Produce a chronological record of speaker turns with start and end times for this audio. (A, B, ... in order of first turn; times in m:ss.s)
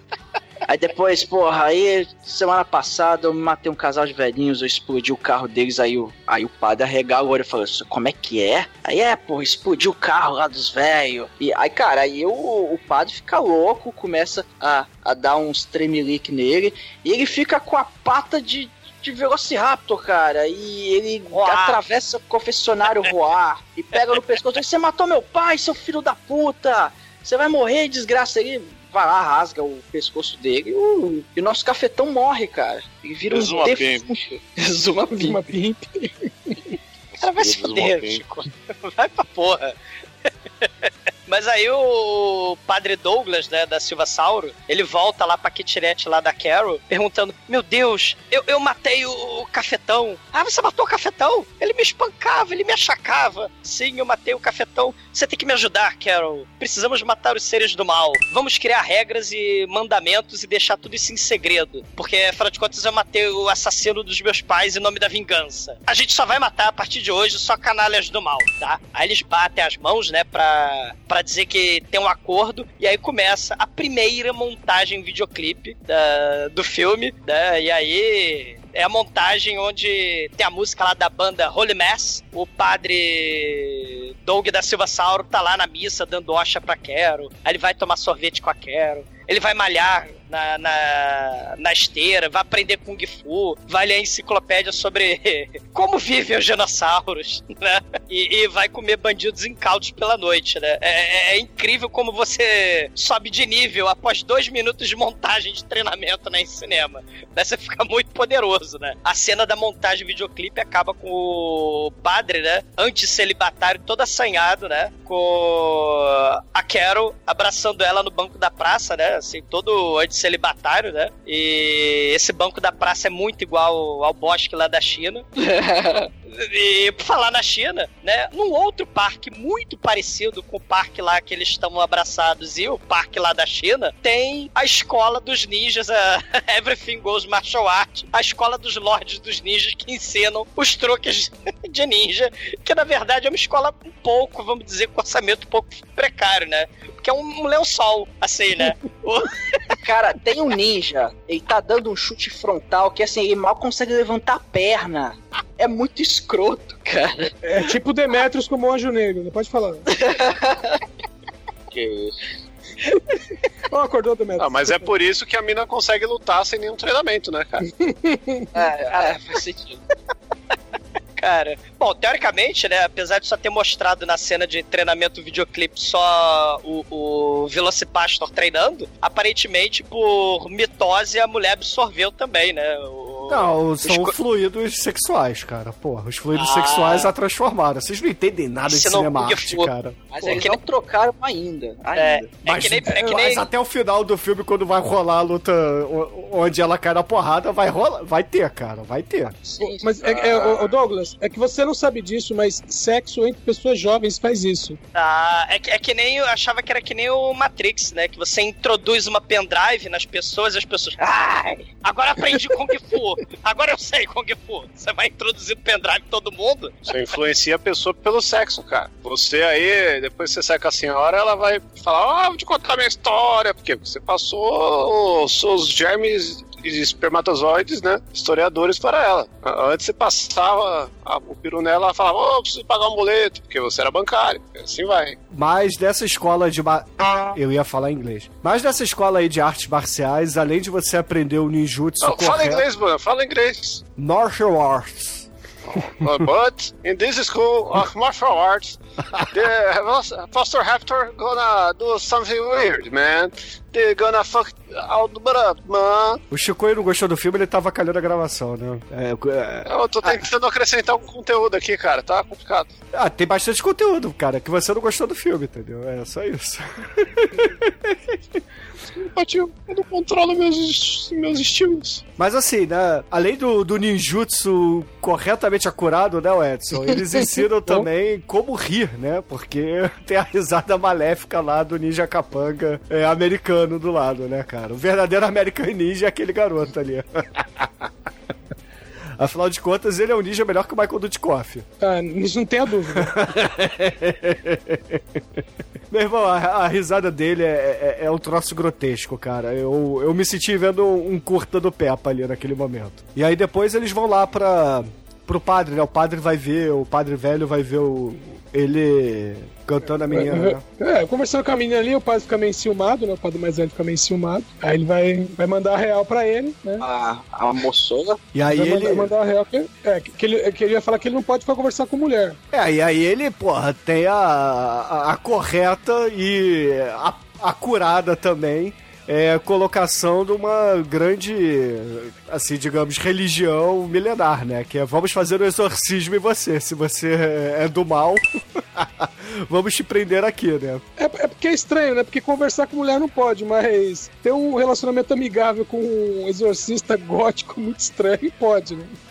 0:00.7-0:35.4 A
0:21.3-0:21.8 B
0:33.3-0:34.3 C
0:35.2-0:36.7 D
0:37.2-0:38.2 C
0:37.2-0:39.7 B
0:40.6-2:05.2 B
2:05.4-2:06.1 A
2:06.3-2:29.7 B
2:29.8-2:37.3 A
2:37.4-2:39.8 D
2:39.9-2:40.8 A
2:41.7-2:42.2 C
2:43.7-2:44.9 D
2:44.4-2:47.6 E
2:47.7-2:48.5 D
2:48.5-2:49.8 A
2:48.9-2:49.2 B
2:51.2-3:04.2 B
3:03.3-3:10.4 F
3:06.4-3:07.1 B
3:08.7-3:09.7 B
3:10.1-3:12.4 A
3:10.2-3:10.6 B
3:12.0-3:13.5 B
3:12.4-3:19.4 F
3:19.4-3:20.4 A
3:19.6-3:24.8 D
3:20.1-3:20.6 E
3:25.0-3:36.9 B
3:36.9-3:55.2 E
3:55.3-4:02.6 F
4:02.0-4:03.8 E
4:04.0-4:05.3 F
4:05.7-4:08.8 E
4:09.3-4:16.2 E
4:16.3-4:20.3 F
4:19.7-4:22.7 E
4:22.9-4:28.2 F
4:29.0-4:32.0 E
4:32.2-4:47.9 F
4:49.2-4:51.7 F
4:51.8-4:53.1 D
4:53.0-4:55.0 F
4:55.9-5:10.6 F
5:10.1-5:16.8 D
5:16.8-5:18.2 A
5:18.3-5:19.1 F
5:18.5-5:22.4 D
5:22.5-5:40.8 F
5:41.0-5:49.0 D